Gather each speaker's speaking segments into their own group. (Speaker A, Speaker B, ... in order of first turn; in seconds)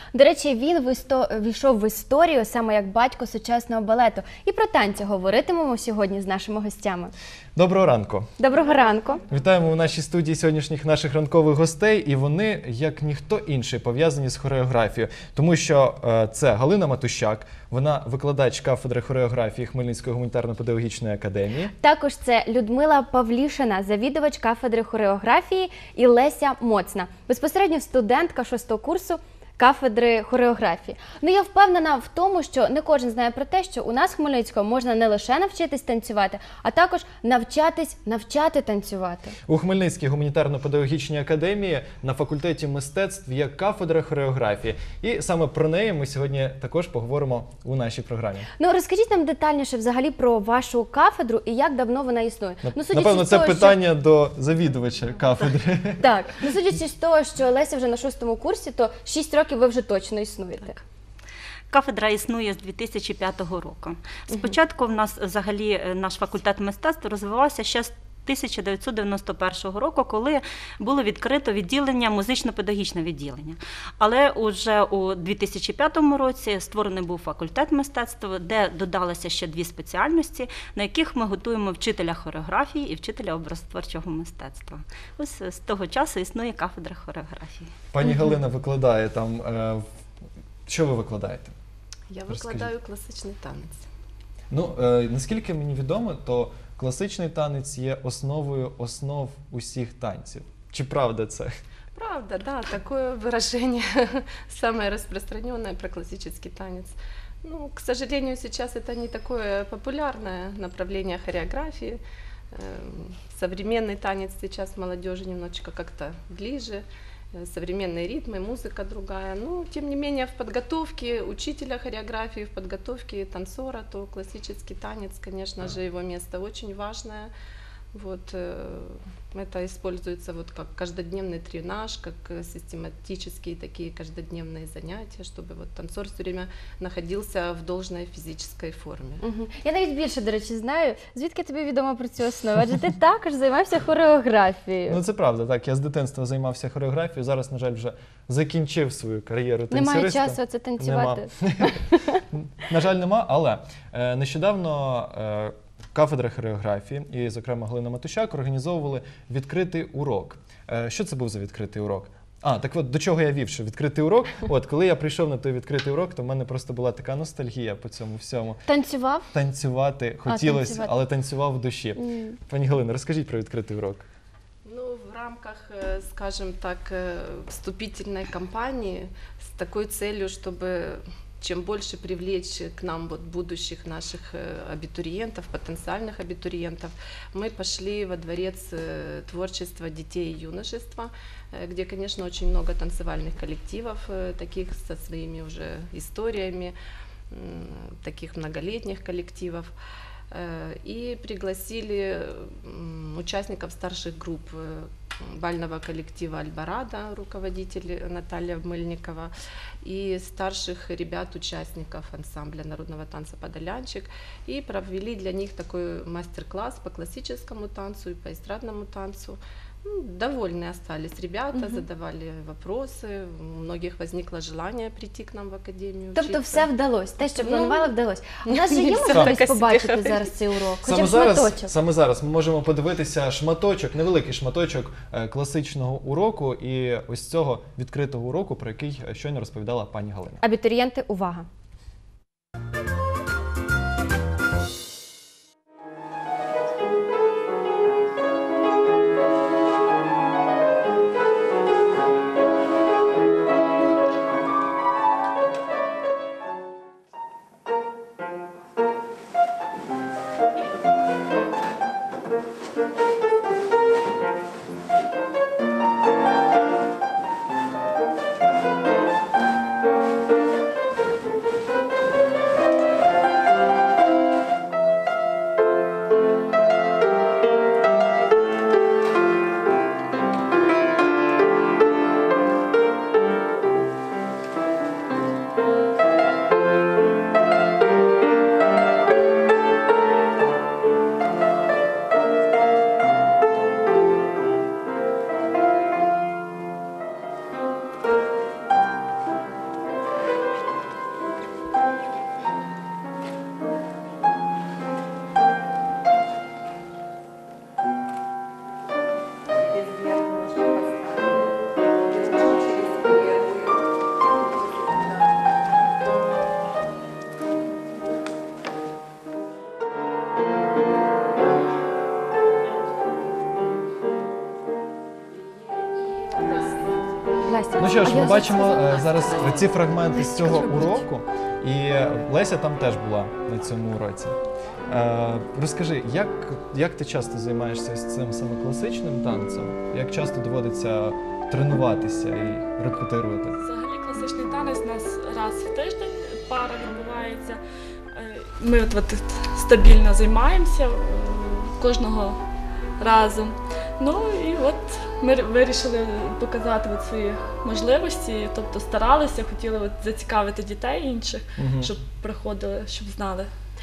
Speaker A: 0.1-7.1, 8.4-9.2, 21.8-39.3, 48.6-53.8, 56.0-60.8, 64.3-64.5, 139.2-145.0, 149.7-152.2, 168.7-169.3, 170.3-170.9, 172.0-172.4, 221.5-221.8, 226.2-231.7, 240.4-241.5, 327.4-331.1
Speaker B: 7.6-8.3, 9.3-21.7, 39.5-48.5, 52.6-56.0, 87.9-89.8, 90.7-91.5, 92.3-92.7, 94.5-101.5, 144.9-151.8, 152.3-168.6, 169.3-174.1, 229.1-229.4, 230.8-240.4, 327.8-343.6, 361.6-361.9
Speaker C: 61.7-87.7
Speaker D: 92.1-93.8, 102.0-112.0, 112.5-127.3, 127.9-139.2, 174.7-196.8, 197.3-199.7, 200.3-209.3, 209.8-226.7, 227.3-227.9, 228.4-230.3, 309.9-311.4, 312.2-313.6, 314.7-315.1
Speaker E: 343.6-347.6, 348.1-352.4, 353.0-363.5